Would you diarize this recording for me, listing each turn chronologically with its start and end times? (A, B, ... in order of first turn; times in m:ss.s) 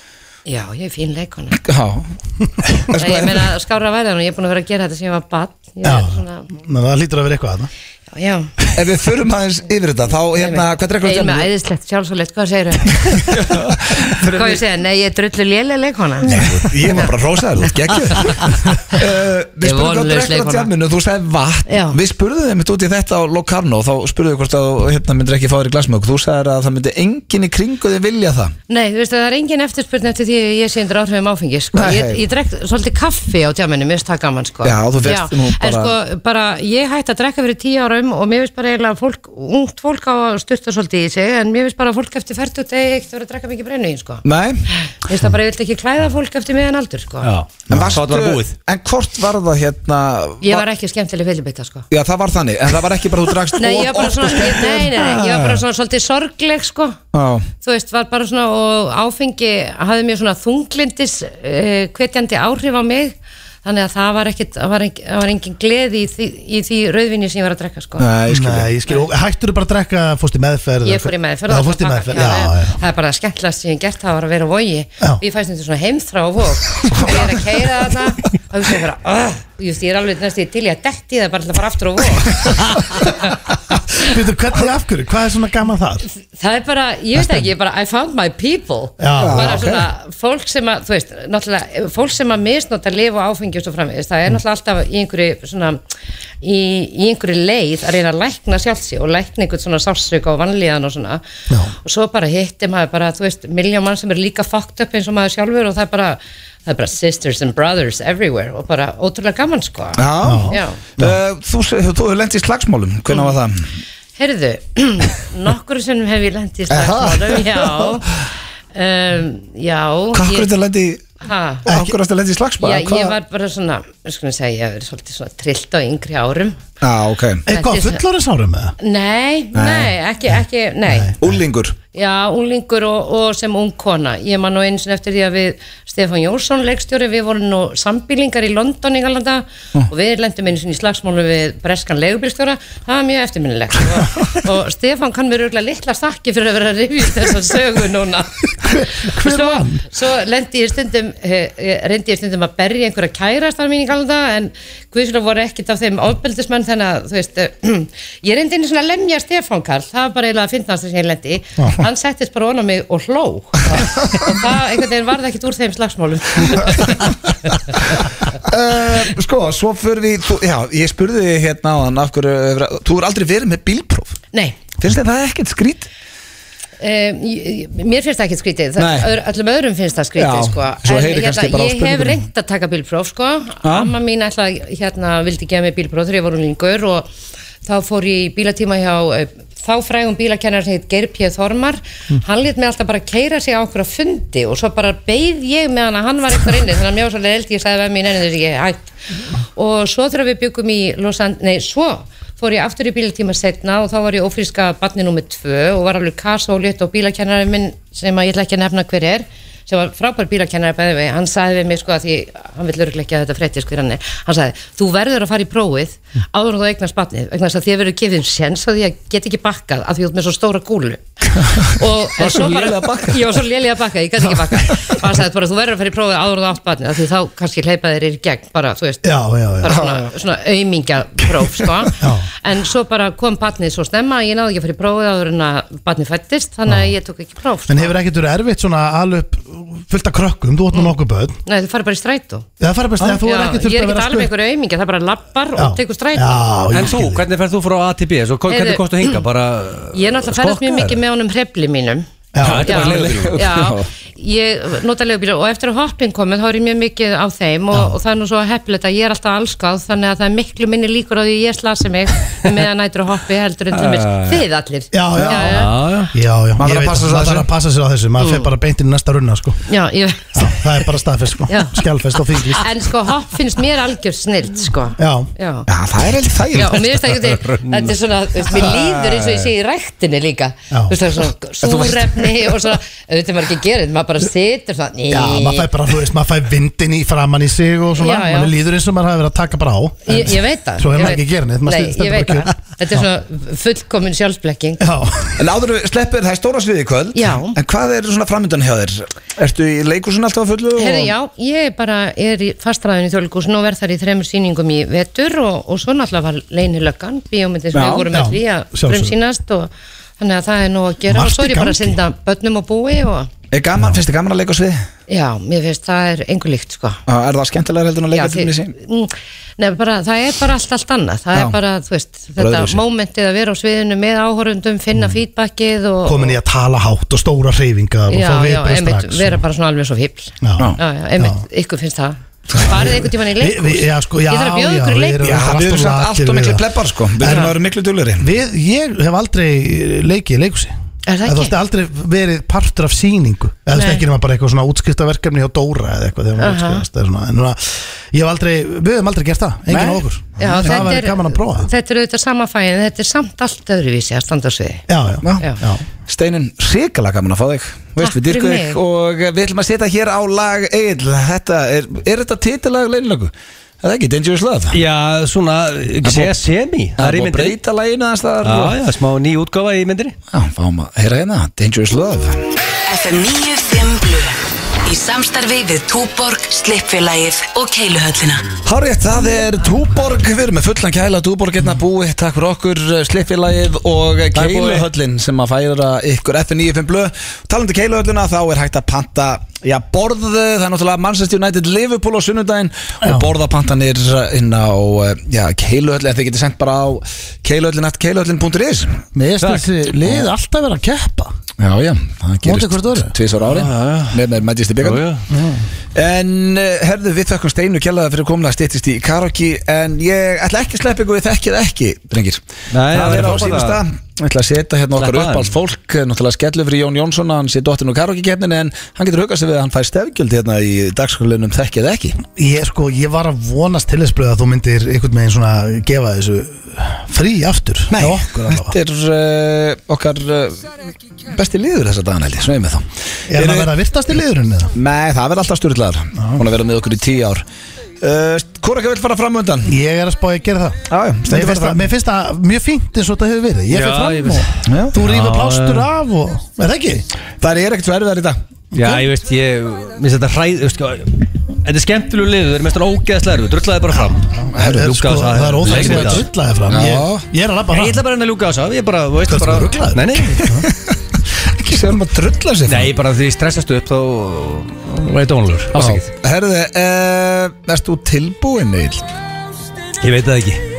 0:00.4-0:01.6 A
0:01.6-0:02.1 B
0:02.8-0:03.5 B
0:02.9-0:06.5 A
0:05.8-0:07.7 C
0:08.1-0:08.5 A
0:08.7-0:11.5 B
0:10.4-0:17.1 A
0:13.0-0:14.6 B
0:16.3-0:28.5 B
0:17.6-0:19.0 A
0:19.6-0:20.7 A
0:21.7-0:22.0 A
0:28.7-0:47.3 A
0:31.7-0:32.3 B
0:34.6-0:35.9 B
0:44.2-0:44.6 B
0:47.2-0:48.5 D
0:47.7-0:50.6 B
0:50.4-0:51.8 A
0:51.9-0:55.2 B
0:53.6-0:57.0 A
0:57.1-0:57.5 B
0:57.6-1:08.0 A
1:08.0-1:08.7 B
1:08.3-1:12.7 C
1:10.8-1:23.3 A
1:16.9-1:17.4 B
1:23.7-1:26.1 C
1:26.3-1:35.8 A
1:27.2-1:27.5 C
1:29.0-1:29.7 C
1:29.1-1:29.9 B
1:36.4-1:41.2 A
1:41.8-1:50.8 A
1:50.0-1:53.8 B
1:50.2-1:51.2 C
1:54.2-2:00.5 A
1:56.7-1:58.0 B
2:00.1-2:01.0 B
2:01.2-2:01.6 A
2:01.6-2:03.2 B
2:01.6-2:01.9 C
2:02.6-2:06.6 A
2:06.8-2:07.4 B
2:07.5-2:08.7 C
2:07.5-2:08.0 A
2:08.8-2:11.2 A
2:09.5-2:09.9 B
2:10.9-2:11.1 C
2:11.2-2:11.8 B
2:11.9-2:48.0 A
2:28.6-2:29.8 C
2:43.7-2:44.5 B
2:48.4-2:54.2 B
2:54.3-2:54.6 A
2:54.8-2:55.9 B
2:56.8-3:07.1 A
2:58.8-2:59.1 B
3:00.2-3:02.2 B
3:03.6-3:03.9 B
3:07.6-3:18.9 A
3:19.5-3:57.9 A
3:42.2-3:43.4 B
3:44.6-3:45.0 B
3:49.0-3:49.8 C
3:49.7-3:50.0 B
3:52.0-3:52.3 C
3:56.7-3:56.9 C
3:57.7-4:01.4 C
4:01.4-4:02.4 A
4:02.6-4:04.3 C
4:03.0-4:06.4 A
4:05.6-4:07.2 C
4:06.7-4:11.0 D
4:08.5-4:09.2 A
4:09.9-4:12.1 A
4:12.3-4:12.7 C
4:12.4-4:13.4 D
4:12.4-4:13.9 B
4:12.7-4:25.8 A
4:23.7-4:24.4 D
4:24.9-4:29.7 C
4:25.4-4:26.1 D
4:26.6-4:27.5 B
4:28.2-4:28.5 A
4:29.7-4:30.6 A
4:30.3-4:32.7 C
4:31.5-4:31.8 A
4:32.4-4:35.7 A
4:35.0-4:35.3 C
4:35.7-4:37.2 B
4:36.5-4:45.7 A
4:37.4-4:38.0 D
4:38.5-4:39.5 B
4:40.7-4:41.0 C
4:41.6-4:42.7 B
4:45.1-4:53.1 C
4:48.0-4:48.5 A
4:50.0-4:54.8 A
4:54.8-4:55.4 C
4:55.4-5:01.1 B
4:57.1-4:57.6 A
5:00.8-5:13.3 A
5:07.7-5:08.1 B
5:08.1-5:09.1 C
5:11.1-5:12.0 C
5:13.5-5:14.8 B
5:15.1-5:17.0 A
5:17.1-5:18.7 B
5:18.1-5:26.4 A
5:22.4-5:22.8 B
5:26.0-5:29.4 C
5:28.1-5:35.3 A
5:30.4-5:31.4 C
5:32.6-5:36.6 C
5:35.2-5:38.3 B
5:37.2-5:37.5 C
5:37.2-5:37.5 A
5:38.2-5:40.7 C
5:41.0-5:41.5 A
5:41.2-5:51.7 C
5:43.7-5:44.0 A
5:46.4-5:46.8 A
5:49.7-5:50.9 B
5:50.4-5:54.8 A
5:54.9-5:55.8 C
5:55.2-5:55.5 B
5:56.0-6:04.8 B
5:58.0-5:58.8 A
6:04.7-6:07.6 D
6:06.0-6:06.3 B
6:07.0-6:08.8 B
6:08.4-6:10.2 D
6:10.3-6:12.4 B
6:12.9-6:18.5 E
6:18.6-6:39.0 B
6:24.3-6:24.9 D
6:33.0-6:33.3 C
6:39.1-6:41.3 C
6:39.4-6:39.7 D
6:41.6-6:45.0 B
6:42.4-6:43.1 C
6:43.4-6:44.2 D
6:44.8-6:45.3 D
6:45.3-6:45.6 C
6:45.9-7:02.2 B
6:52.7-6:53.8 D
6:55.0-6:55.5 D
7:02.2-7:08.7 C
7:07.9-7:10.7 B
7:11.3-7:13.7 B
7:13.3-7:14.7 C
7:14.7-7:17.4 B
7:16.2-7:16.4 C
7:18.0-7:19.7 B
7:19.6-7:27.0 C
7:20.9-7:21.8 B
7:23.7-7:25.9 D
7:24.6-7:25.0 B
7:27.4-7:28.4 B
7:28.7-7:36.2 D
7:34.3-7:38.0 C
7:34.5-7:35.0 B
7:35.6-7:37.2 B
7:37.7-7:40.6 D
7:39.2-7:40.6 C
7:40.6-7:42.9 B
7:42.7-7:46.1 D
7:45.8-7:49.0 B
7:50.0-7:50.6 D